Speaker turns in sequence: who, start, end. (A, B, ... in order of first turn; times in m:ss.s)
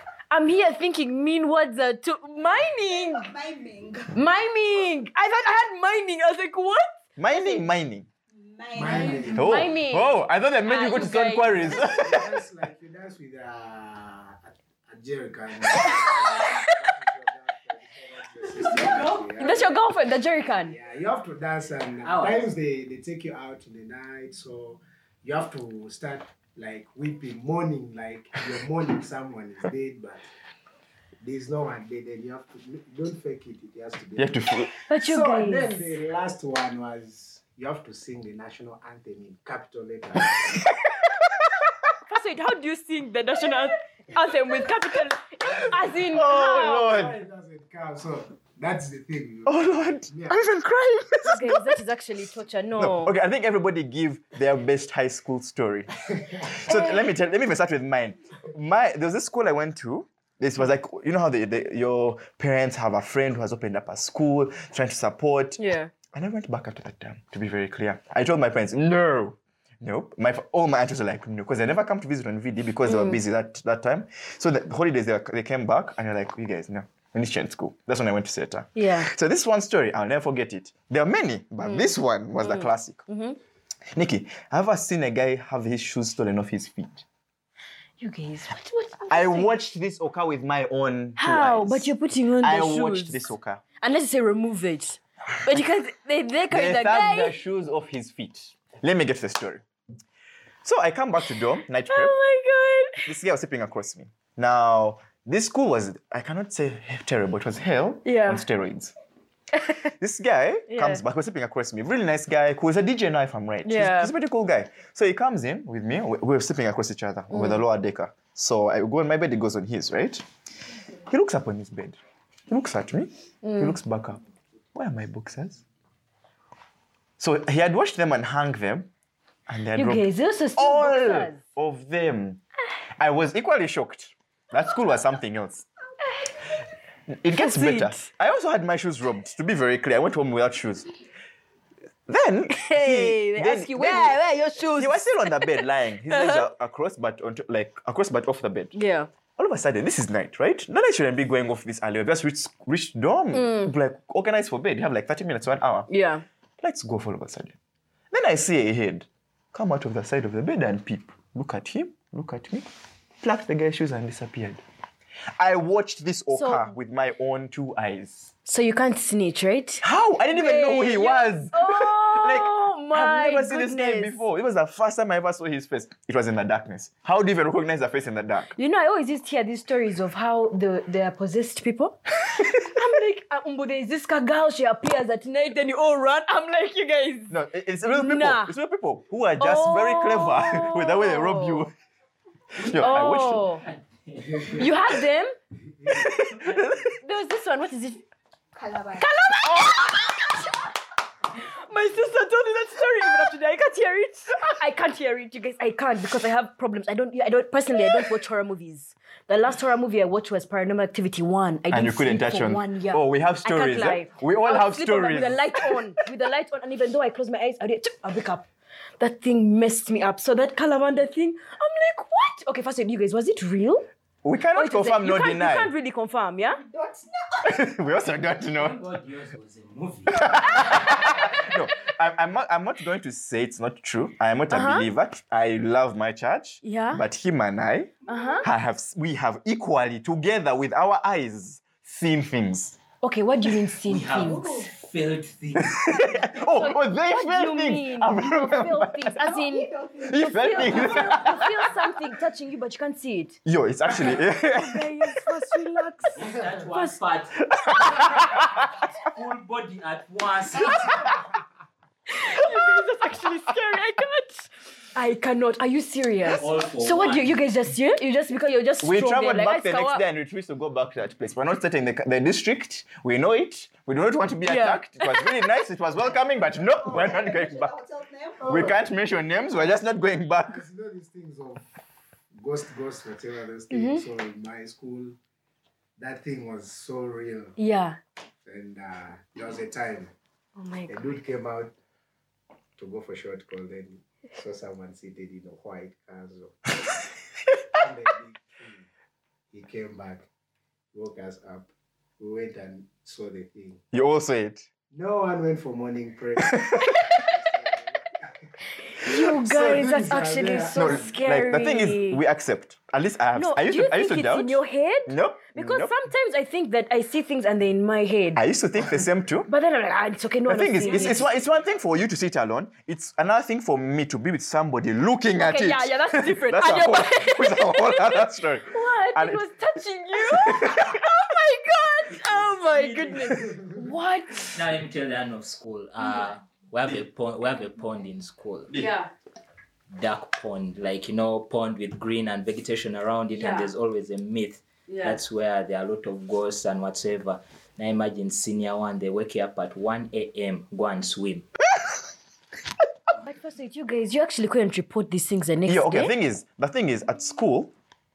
0:00.3-0:03.3 A
0:02.9-0:04.1 B
0:04.1-0:07.6 A
0:07.2-0:08.1 C
0:08.3-0:09.4 B
0:08.7-0:09.6 D
0:09.0-0:11.8 A
0:09.4-0:12.4 C
0:11.4-0:19.6 D
0:15.7-0:16.6 A
0:18.6-0:19.3 E
0:19.4-0:20.8 A
0:20.6-0:30.3 D
0:22.0-0:22.5 E
0:31.2-0:40.7 D
0:34.2-0:34.7 C
0:34.9-0:35.9 A
0:40.4-0:41.3 C
0:42.1-0:46.9 A
0:45.4-0:50.5 D
0:46.0-0:47.2 C
0:49.4-0:51.8 C
0:51.2-0:53.1 A
0:52.8-0:55.9 C
0:56.4-1:05.6 C
0:56.7-0:57.0 A
1:05.6-1:05.9 A
1:06.1-1:23.1 C
1:12.9-1:13.2 A
1:18.8-1:19.1 A
1:21.6-1:23.4 A
1:23.9-1:27.0 C
1:28.0-1:29.5 A
1:29.1-1:33.6 C
1:31.2-1:33.3 A
1:33.8-1:37.4 A
1:36.5-1:39.6 C
1:40.6-1:42.1 C
1:41.9-1:43.1 A
1:43.0-1:48.9 C
1:48.0-1:48.4 A
1:49.6-1:49.9 A
1:50.0-2:00.2 C
1:50.7-1:51.0 A
1:53.6-1:54.1 A
1:57.3-1:57.6 A
2:01.1-2:04.2 C
2:03.4-2:03.8 A
2:04.7-2:05.6 C
2:07.2-2:08.9 C
2:09.5-2:12.4 C
2:09.8-2:11.4 A
2:13.0-2:15.6 C
2:16.1-2:16.3 A
2:17.1-2:20.9 C
2:17.3-2:18.0 A
2:22.1-2:24.2 C
2:22.5-2:26.5 A
2:24.7-2:28.8 C
2:28.7-2:29.1 A
2:29.4-2:35.9 C
2:33.3-2:33.7 A
2:35.9-2:36.2 A
2:36.6-2:37.6 C
2:38.1-2:42.7 C
2:43.2-2:44.6 C
2:45.4-2:48.3 C
2:46.3-2:46.7 A
2:48.4-2:54.2 A
2:49.8-2:58.5 C
2:58.6-3:07.4 A
3:07.3-3:11.7 C
3:07.9-3:08.5 A
3:09.4-3:11.7 A
3:12.6-3:13.5 C
3:12.6-3:14.7 E
3:12.7-3:13.6 A
3:14.5-3:15.3 A
3:15.8-3:16.2 D
3:15.9-3:16.9 C
3:17.0-3:18.0 A
3:18.5-3:19.1 B
3:19.0-3:20.6 A
3:19.4-3:19.8 C
3:21.3-3:38.5 A
3:31.7-3:35.8 C
3:39.0-3:43.9 A
3:44.2-3:45.7 C
3:44.6-3:46.6 A
3:46.6-3:47.6 B
3:47.4-3:48.8 C
3:48.5-3:51.2 E
3:50.1-4:02.8 C
3:54.5-3:54.9 A
3:56.6-3:57.0 A
3:58.1-3:58.4 A
4:03.0-4:04.6 A
4:03.9-4:06.3 E
4:04.1-4:04.7 B
4:05.6-4:09.3 C
4:06.4-4:13.4 A
4:09.2-4:11.7 B
4:10.0-4:11.5 C
4:13.4-4:15.3 C
4:14.0-4:17.0 A
4:16.1-4:21.1 E
4:17.5-4:18.5 C
4:22.1-4:30.0 A
4:26.3-4:27.4 E
4:28.8-4:37.7 C
4:34.4-4:35.3 A
4:36.8-4:38.7 B
4:38.4-4:40.6 C
4:38.5-4:38.7 D
4:40.4-4:41.6 D
4:42.3-4:45.1 D
4:43.7-4:44.0 A
4:46.0-4:47.6 D
4:47.6-4:48.0 A
4:48.4-4:50.1 D
4:50.6-4:51.2 A
4:50.9-4:51.7 D
4:52.8-4:56.7 D
4:57.7-4:58.9 D
4:59.5-5:00.3 D
5:00.9-5:03.8 D
5:03.9-5:04.7 C
5:04.9-5:08.5 D
5:06.4-5:07.2 C
5:08.9-5:12.2 A
5:09.1-5:11.2 D
5:09.1-5:09.8 C
5:10.8-5:15.9 C
5:13.4-5:18.4 A
5:18.4-5:19.5 C
5:19.5-5:21.3 A
5:20.5-5:29.5 C
5:25.4-5:34.6 A
5:30.2-5:31.1 C
5:32.4-5:33.4 E
5:34.4-5:38.8 E
5:38.7-5:39.1 A
5:39.9-5:51.5 E
5:43.3-5:43.7 A
5:44.9-5:45.2 A
5:53.2-5:56.1 A
5:55.6-5:57.7 C